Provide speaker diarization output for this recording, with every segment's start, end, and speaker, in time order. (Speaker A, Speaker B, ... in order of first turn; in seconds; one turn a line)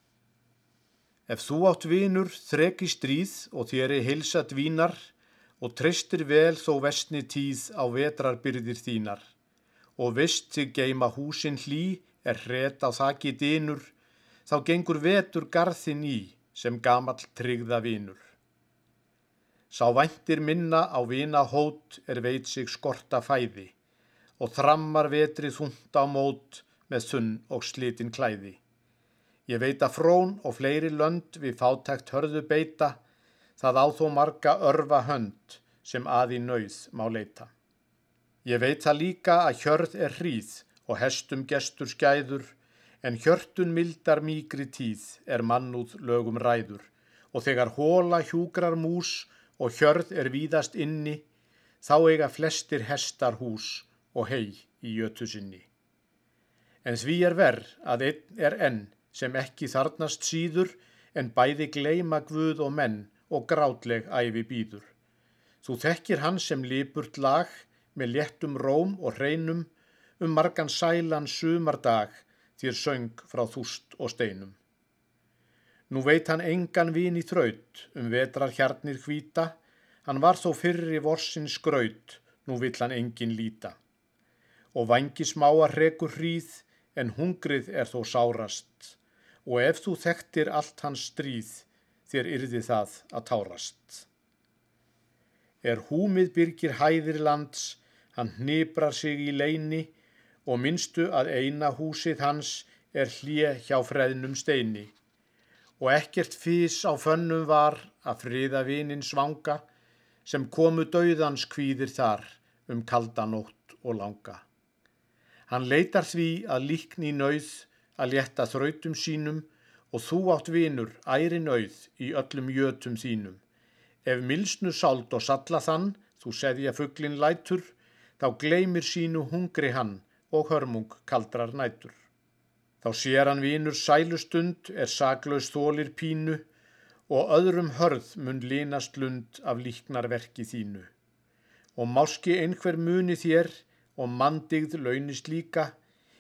Speaker A: 1.3-9.3
Speaker A: 10.0-13.9
Speaker A: 14.5-18.3
Speaker A: 19.7-23.7
Speaker A: 24.4-28.6
Speaker A: 29.5-33.0
Speaker A: 33.6-37.5
Speaker A: 38.4-51.2
Speaker A: 51.8-55.7
Speaker A: 56.8-64.9
Speaker A: 65.6-74.6
Speaker A: 75.9-83.8
Speaker A: 84.7-94.1
Speaker A: 95.6-99.9
Speaker A: 100.5-104.9
Speaker A: 105.8-109.6
Speaker A: 110.2-114.4
Speaker A: 115.5-123.4
Speaker A: 124.0-132.0
Speaker A: 132.8-136.4
Speaker A: 137.1-140.9
Speaker A: 141.8-145.7